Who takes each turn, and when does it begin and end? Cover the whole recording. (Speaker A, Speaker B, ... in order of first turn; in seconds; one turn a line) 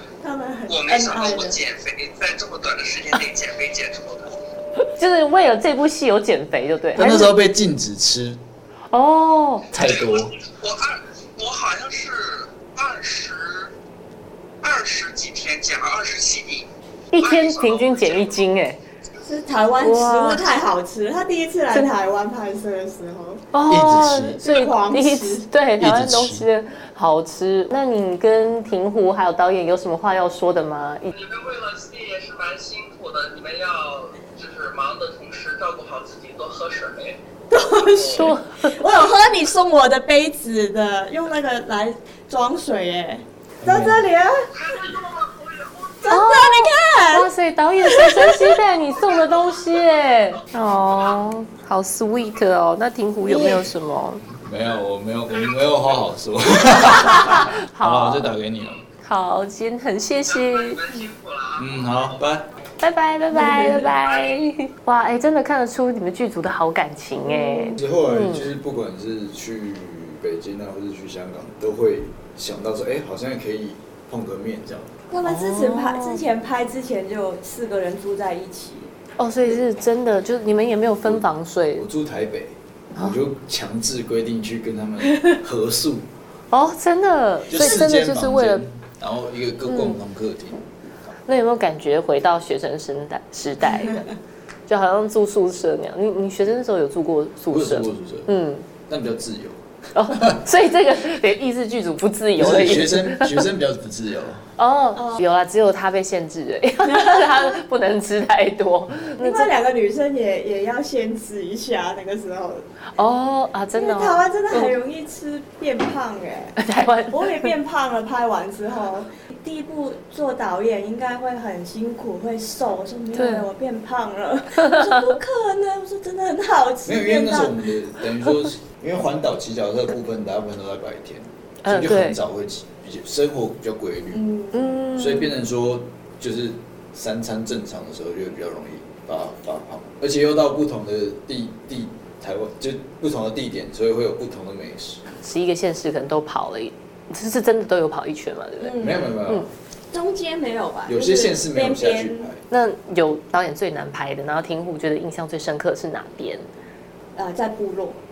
Speaker A: 0.2-1.6
Speaker B: 0.7-4.4
Speaker C: 4.8-7.4
Speaker D: 7.0-8.4
Speaker C: 8.9-9.8
Speaker D: 9.7-10.3
Speaker B: 9.7-13.7
Speaker B: 14.6-18.4
Speaker C: 17.1-18.8
Speaker A: 19.2-23.4
Speaker C: 19.8-20.4
Speaker C: 23.5-31.1
Speaker D: 23.7-24.4
Speaker A: 24.4-25.4
Speaker D: 25.8-26.5
Speaker B: 31.1-37.2
Speaker A: 37.5-45.0
Speaker B: 37.9-38.3
Speaker C: 38.1-38.7
Speaker D: 43.6-44.0
Speaker B: 44.6-46.1
Speaker A: 46.0-48.6
Speaker C: 46.1-54.2
Speaker A: 53.2-53.7
Speaker D: 54.4-58.8
Speaker B: 55.5-55.7
Speaker C: 56.7-58.3
Speaker C: 59.0-60.8
Speaker B: 60.2-62.0
Speaker D: 61.6-62.5
Speaker C: 62.8-68.5
Speaker A: 63.3-63.9
Speaker B: 63.7-64.3
Speaker A: 67.2-67.8
Speaker D: 67.8-74.9
Speaker A: 75.1-78.9
Speaker C: 75.2-76.2
Speaker C: 79.2-81.8
Speaker D: 81.8-86.1
Speaker C: 86.5-88.7
Speaker D: 87.5-90.7
Speaker C: 89.7-90.0
Speaker C: 91.2-94.1
Speaker C: 94.7-98.7
Speaker D: 97.5-98.3
Speaker D: 98.9-100.4
Speaker C: 99.9-103.4
Speaker D: 102.3-104.5
Speaker C: 104.6-109.5
Speaker A: 104.9-105.2
Speaker A: 106.8-107.6
Speaker A: 109.2-112.6
Speaker C: 113.0-114.7
Speaker A: 113.7-116.6
Speaker C: 116.6-117.5
Speaker A: 117.1-127.6
Speaker C: 123.1-123.5
Speaker D: 126.8-134.2
Speaker C: 131.6-132.2
Speaker A: 134.1-134.9
Speaker C: 134.5-135.3
Speaker D: 134.9-145.0
Speaker C: 145.2-148.7
Speaker A: 148.6-149.2
Speaker D: 148.8-149.4
Speaker A: 149.9-152.3
Speaker D: 150.9-152.4
Speaker C: 152.5-156.5
Speaker A: 157.2-158.0